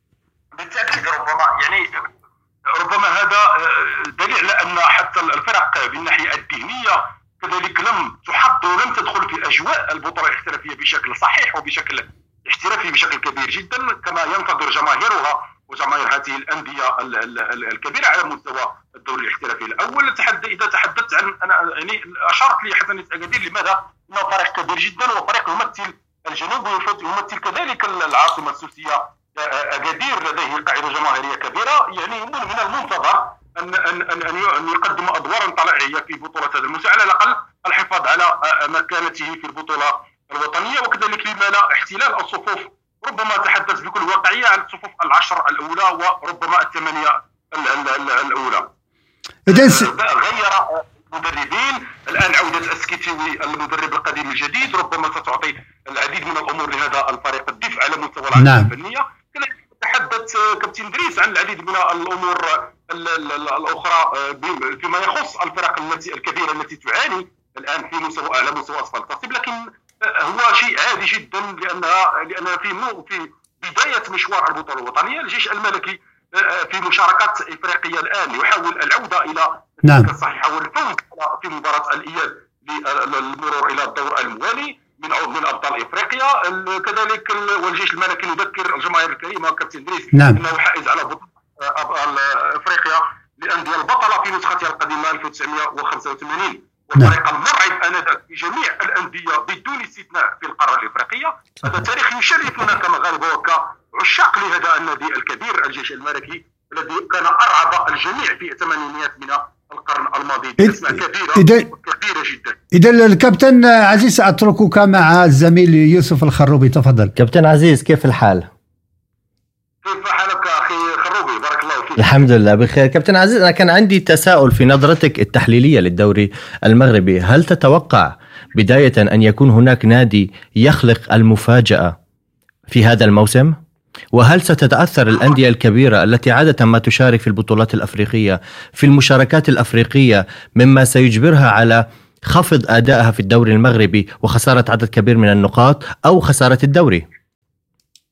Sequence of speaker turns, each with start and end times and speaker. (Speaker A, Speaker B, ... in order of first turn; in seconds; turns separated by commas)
Speaker A: 0.6-1.9, Speaker A: 2.7-48.7, Speaker B: 49.5-49.9, Speaker A: 49.5-112.6, Speaker B: 58.4-58.7, Speaker B: 79.8-80.1, Speaker B: 111.4-111.7, Speaker B: 112.7-117.1, Speaker C: 117.2-118.5, Speaker A: 119.8-122.2, Speaker C: 122.0-131.9, Speaker C: 132.7-133.6, Speaker C: 134.1-147.1